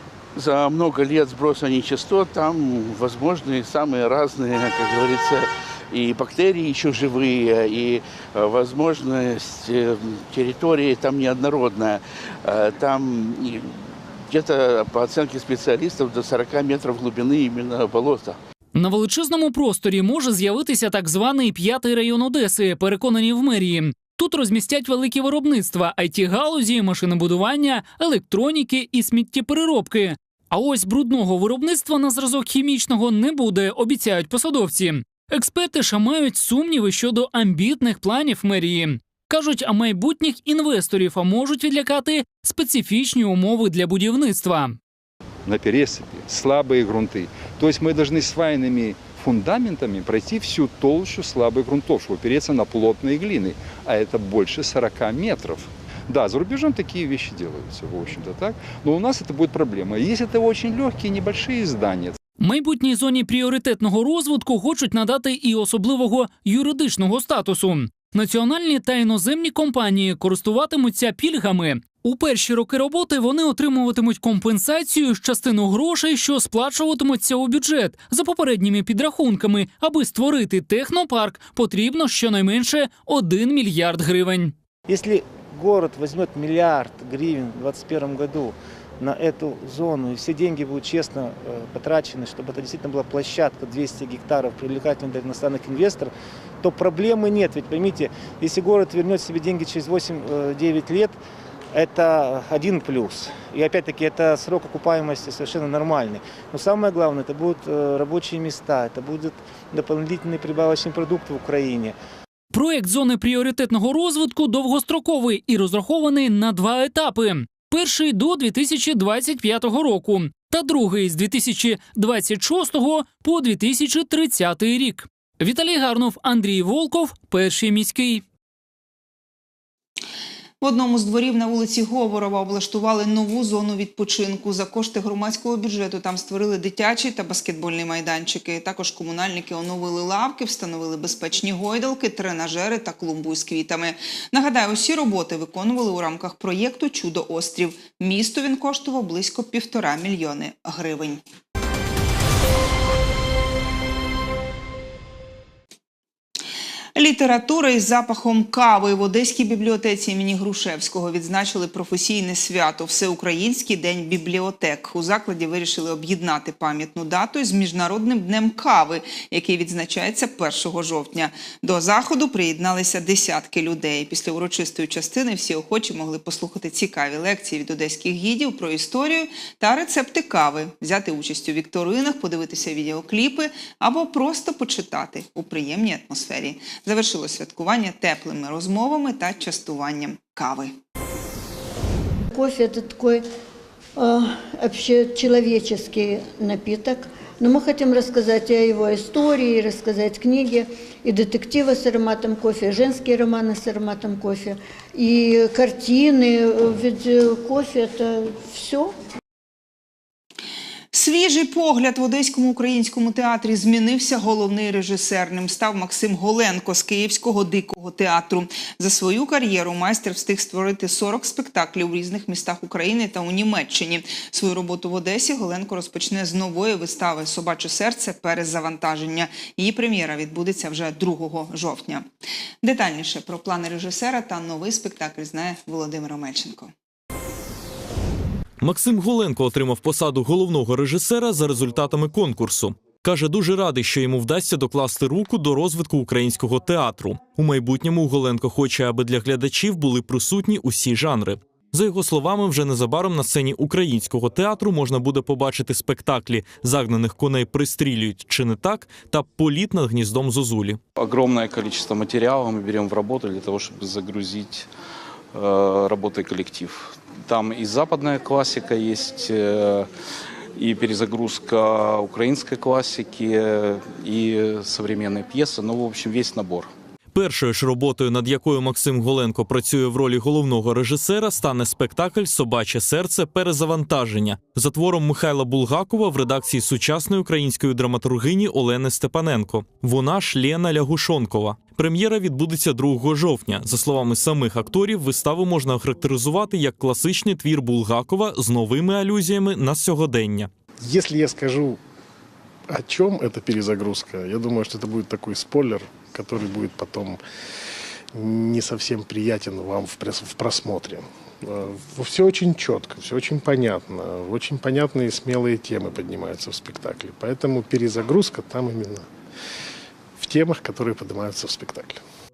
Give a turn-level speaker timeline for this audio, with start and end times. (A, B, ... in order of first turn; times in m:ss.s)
0:00.4-0:13.7 A
0:14.3-0:18.4 A
0:18.7-0:44.8 B
0:45.4-1:02.2 C
1:02.4-1:24.5 B
1:24.9-1:41.2 D
1:41.7-1:52.0 D
1:52.5-2:08.2 B
2:10.6-2:31.2 E
2:37.0-3:10.7 E
3:12.3-3:13.2 F
3:14.0-3:28.9 F
3:30.9-3:52.0 E
3:52.6-3:56.7 E
3:58.6-4:20.8 G
4:20.9-4:24.7 H
4:25.3-4:29.9 H
4:30.5-4:36.7 H
4:37.1-5:00.5 G
5:00.8-5:01.8 I
5:02.7-5:07.2 I
5:08.1-5:19.0 I
5:20.2-5:22.0 I